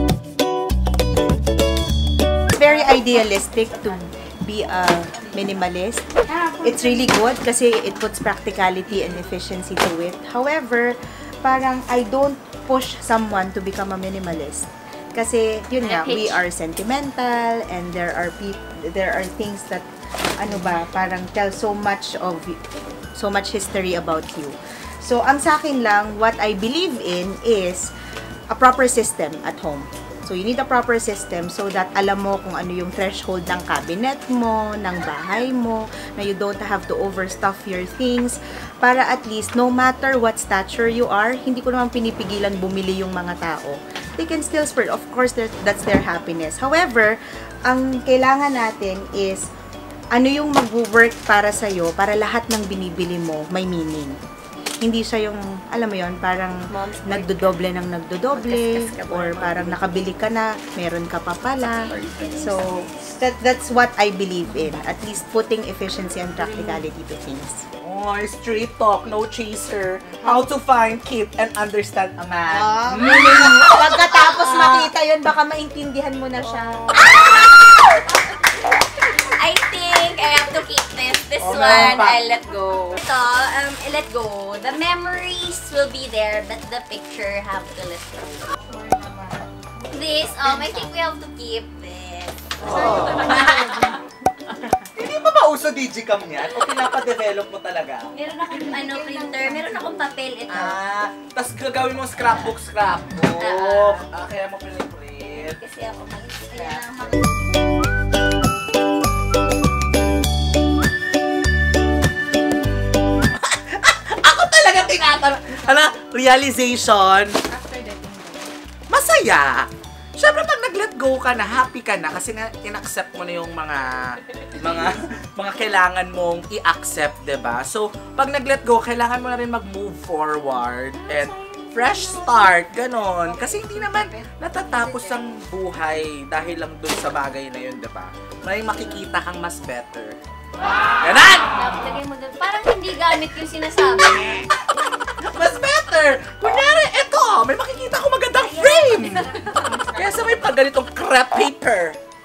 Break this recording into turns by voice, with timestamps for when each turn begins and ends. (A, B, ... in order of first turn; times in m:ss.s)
0:02.5-0:19.9 A
0:15.8-0:16.4 B
0:20.4-0:22.6 A
0:23.2-0:27.9 A
0:28.5-0:47.2 A
0:47.7-0:49.4 A
0:50.1-0:54.2 A
0:54.8-1:07.6 A
0:56.7-0:57.6 B
0:58.3-0:59.9 B
1:01.6-1:02.4 B
1:02.0-1:02.5 C
1:06.3-1:06.8 C
1:07.8-1:13.9 C
1:10.0-1:10.5 A
1:12.5-1:17.2 A
1:13.1-1:14.7 B
1:14.6-1:14.8 C
1:16.9-1:28.6 B
1:21.4-1:22.2 C
1:28.6-1:30.9 A
1:29.9-1:34.0 B
1:32.6-1:34.0 C
1:32.6-1:33.9 A
1:34.9-1:38.1 C
1:38.1-1:40.8 B
1:38.5-1:40.1 A
1:40.5-1:45.6 C
1:43.4-1:44.1 B
1:45.3-1:47.1 B
1:53.4-1:57.4 C
1:57.5-1:58.5 A
1:58.9-2:03.9 C
2:04.5-2:20.2 C
2:11.8-2:12.4 A
2:13.2-2:15.2 A
2:21.0-2:21.5 C
2:21.5-2:24.4 B
2:25.1-2:29.3 C
2:28.4-2:30.0 B
2:29.6-2:30.3 A
2:29.9-2:32.0 C